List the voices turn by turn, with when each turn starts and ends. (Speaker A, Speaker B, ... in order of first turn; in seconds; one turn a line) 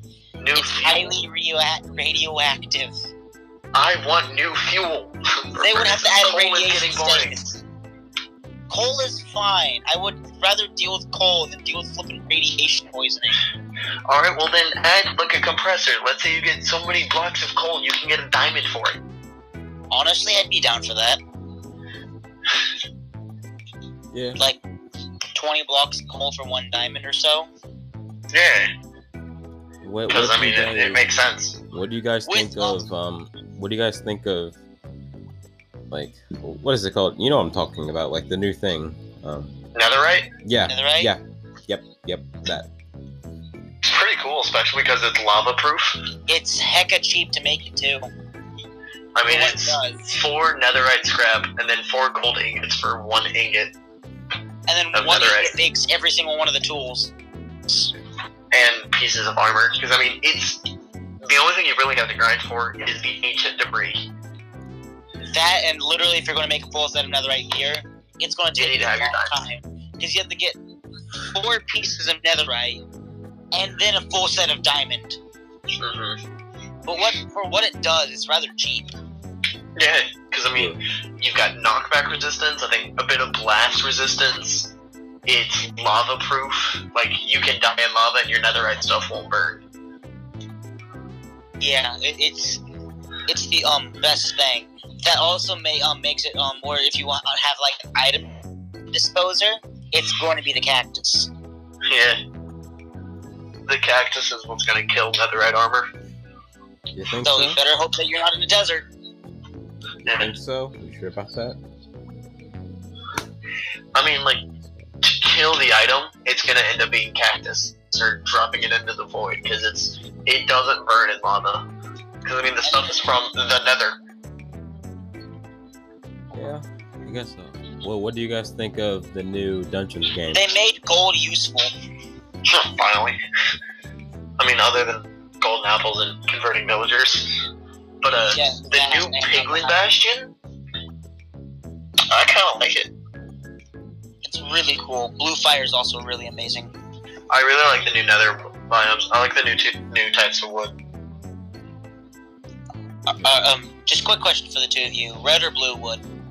Speaker A: 0.4-1.2
Speaker B: 0.5-3.0
Speaker A: 3.7-7.4
Speaker B: 5.6-7.6
Speaker B: 8.7-13.4
Speaker A: 14.1-19.0
Speaker B: 19.9-21.2
Speaker C: 24.1-24.4
Speaker B: 25.3-27.5
Speaker A: 28.3-28.7
Speaker C: 29.8-31.1
Speaker A: 30.1-31.6
Speaker C: 31.7-34.6
Speaker B: 32.3-32.8
Speaker C: 35.9-39.5
Speaker A: 39.8-40.3
Speaker C: 40.4-42.7
Speaker B: 40.7-41.1
Speaker A: 43.8-46.0
Speaker B: 46.3-48.1
Speaker A: 49.1-53.7
Speaker B: 49.3-50.2
Speaker B: 54.7-57.1
Speaker A: 54.9-55.5
Speaker A: 58.5-60.7
Speaker A: 61.2-64.0
Speaker B: 65.3-70.6
Speaker A: 68.6-69.3
Speaker B: 71.2-72.8
Speaker B: 73.5-75.2
Speaker A: 75.8-76.2
Speaker B: 76.8-78.9
Speaker A: 79.8-84.7
Speaker C: 80.5-80.8
Speaker A: 85.2-89.6
Speaker B: 91.6-92.6
Speaker B: 93.3-98.3
Speaker B: 98.9-101.3
Speaker A: 101.9-102.2
Speaker A: 103.7-105.9
Speaker C: 106.9-107.6
Speaker B: 107.2-108.9
Speaker A: 110.0-110.3
Speaker C: 110.2-111.6
Speaker A: 114.0-114.4
Speaker A: 115.0-121.6
Speaker A: 122.2-124.0
Speaker B: 122.6-123.0
Speaker C: 126.3-130.5
Speaker B: 130.3-131.7
Speaker A: 132.4-133.2
Speaker A: 134.4-137.4
Speaker A: 138.0-140.3
Speaker B: 138.3-139.8
Speaker A: 142.1-142.9
Speaker B: 144.2-146.7
Speaker A: 147.3-150.8
Speaker B: 153.1-156.0